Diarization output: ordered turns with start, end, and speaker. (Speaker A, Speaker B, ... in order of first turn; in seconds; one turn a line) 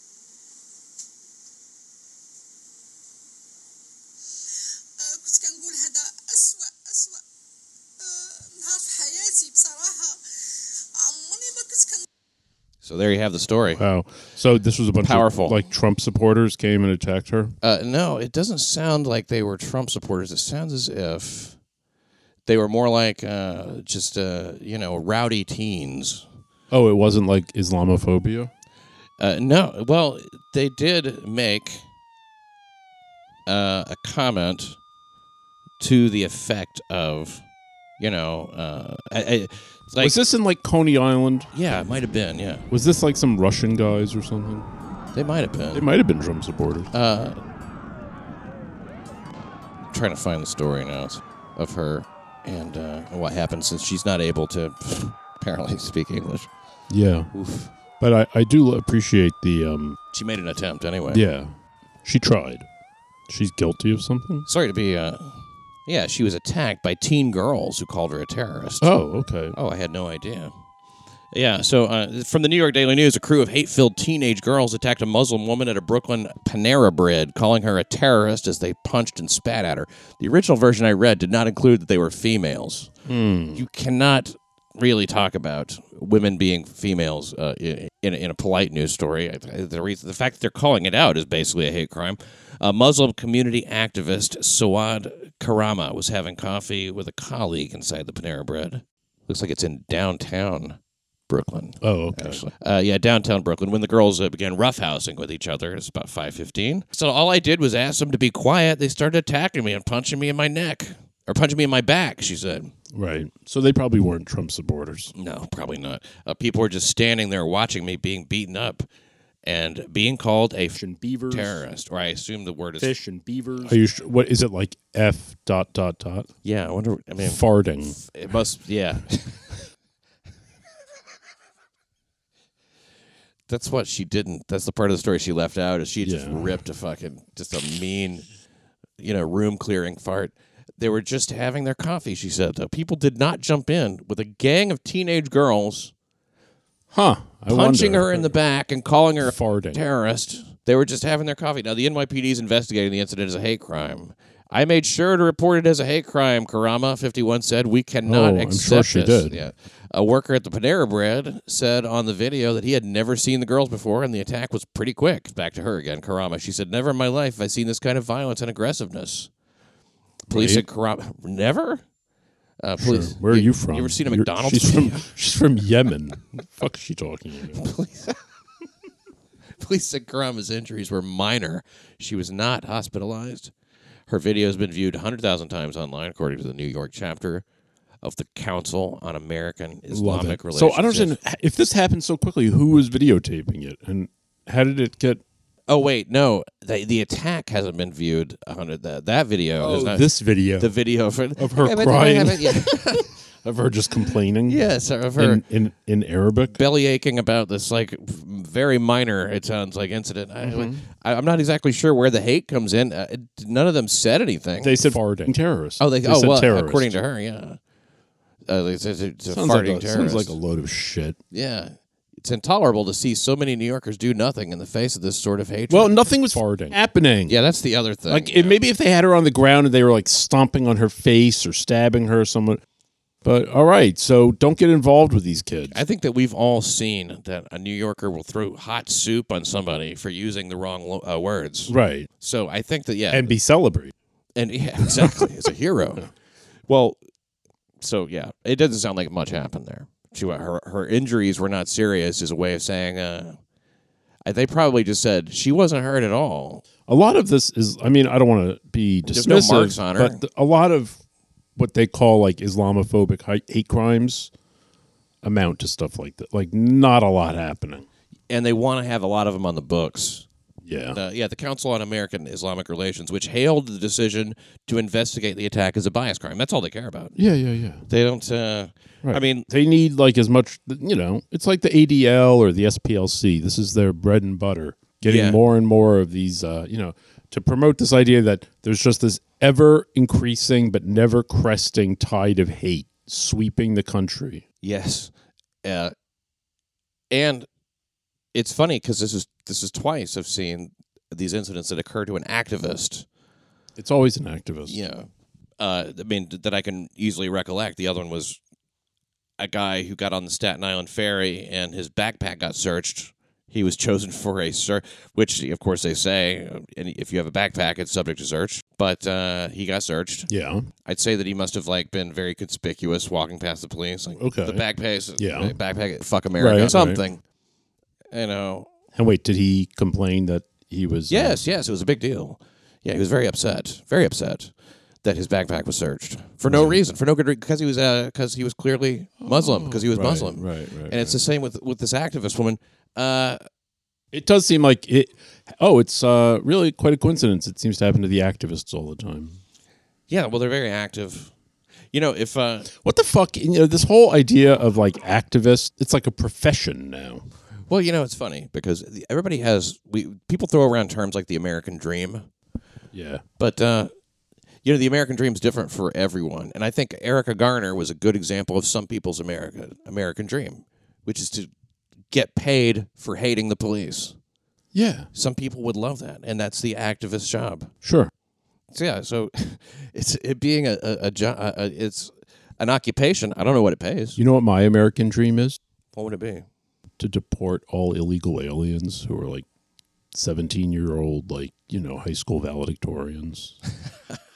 Speaker A: 4.6-7.2
Speaker A: 8.0-12.1
Speaker B: 12.8-13.8
Speaker C: 13.7-17.6
Speaker B: 15.0-15.6
Speaker B: 17.6-21.6
Speaker B: 22.5-26.3
Speaker C: 26.7-28.5
Speaker B: 29.2-31.9
Speaker B: 33.5-34.8
Speaker B: 35.8-37.5
Speaker B: 38.0-40.2
Speaker C: 40.0-41.5
Speaker B: 41.5-42.6
Speaker C: 42.7-44.7
Speaker B: 45.1-45.9
Speaker C: 45.7-46.9
Speaker B: 46.9-47.4
Speaker B: 49.9-56.5
Speaker C: 56.9-57.3
Speaker B: 57.3-57.7
Speaker C: 58.0-60.0
Speaker B: 60.1-61.2
Speaker C: 61.1-62.7
Speaker C: 63.3-64.5
Speaker B: 64.5-68.9
Speaker C: 68.8-69.6
Speaker B: 69.5-70.5
Speaker B: 71.3-82.9
Speaker C: 83.1-83.6
Speaker B: 83.5-100.8
Speaker B: 101.3-112.7
Speaker C: 101.8-102.4
Speaker C: 112.9-115.1
Speaker B: 115.2-118.9
Speaker B: 119.4-120.8
Speaker C: 120.8-121.6
Speaker B: 121.3-122.9
Speaker C: 122.8-126.3
Speaker B: 126.4-129.5
Speaker C: 127.2-128.0
Speaker B: 133.5-138.3
Speaker C: 136.0-136.6
Speaker B: 139.0-145.9
Speaker C: 146.9-148.3
Speaker B: 147.5-169.3
Speaker C: 149.2-149.8
Speaker C: 158.1-159.4
Speaker C: 170.3-170.6
Speaker B: 170.3-171.8
Speaker B: 172.6-175.1
Speaker C: 172.8-177.7
Speaker B: 177.5-178.2
Speaker B: 179.6-183.5
Speaker B: 184.1-187.4
Speaker B: 188.0-191.2
Speaker C: 189.9-195.2
Speaker B: 195.7-200.1
Speaker C: 199.6-200.7
Speaker B: 200.6-203.1
Speaker C: 201.4-204.7
Speaker B: 204.5-205.4
Speaker C: 205.2-206.6
Speaker B: 206.5-215.0
Speaker C: 210.4-210.8
Speaker C: 214.6-217.0
Speaker B: 215.8-217.6
Speaker B: 218.5-220.4
Speaker C: 219.3-221.2
Speaker B: 221.3-226.0
Speaker C: 225.7-227.4
Speaker B: 227.3-228.6
Speaker C: 228.1-232.6
Speaker C: 233.2-235.8
Speaker B: 235.7-243.3
Speaker C: 241.7-242.1
Speaker C: 243.1-243.9
Speaker B: 244.4-246.0
Speaker B: 246.7-247.0
Speaker B: 247.8-253.4
Speaker B: 254.2-256.6
Speaker C: 256.9-261.0
Speaker B: 259.1-260.2
Speaker C: 261.6-264.3
Speaker C: 265.2-267.9
Speaker B: 268.3-270.3
Speaker C: 270.6-271.0
Speaker B: 270.9-277.2
Speaker C: 277.2-277.9
Speaker B: 277.9-279.5
Speaker C: 279.0-294.4
Speaker B: 285.0-285.4
Speaker B: 294.6-295.1
Speaker B: 295.6-295.9
Speaker B: 297.1-297.5
Speaker B: 298.3-303.1
Speaker C: 303.8-304.8
Speaker B: 304.7-308.4
Speaker B: 309.4-320.3
Speaker C: 320.3-320.7
Speaker B: 320.9-327.2
Speaker C: 324.2-324.6
Speaker C: 325.2-325.6
Speaker C: 326.4-327.0
Speaker B: 328.1-328.7
Speaker C: 328.9-331.4
Speaker B: 331.1-343.4
Speaker C: 336.5-336.8
Speaker C: 339.2-341.2
Speaker C: 344.1-349.4
Speaker B: 350.1-351.3
Speaker B: 351.9-352.7
Speaker C: 352.7-357.3
Speaker B: 357.7-362.3
Speaker C: 362.9-363.2
Speaker B: 363.4-363.9
Speaker B: 364.6-371.5
Speaker B: 372.1-374.2
Speaker C: 374.7-375.1
Speaker B: 375.1-377.7
Speaker C: 377.8-378.1
Speaker B: 378.7-384.2
Speaker C: 384.2-385.6
Speaker B: 385.9-386.5
Speaker C: 387.0-389.5
Speaker C: 390.1-393.6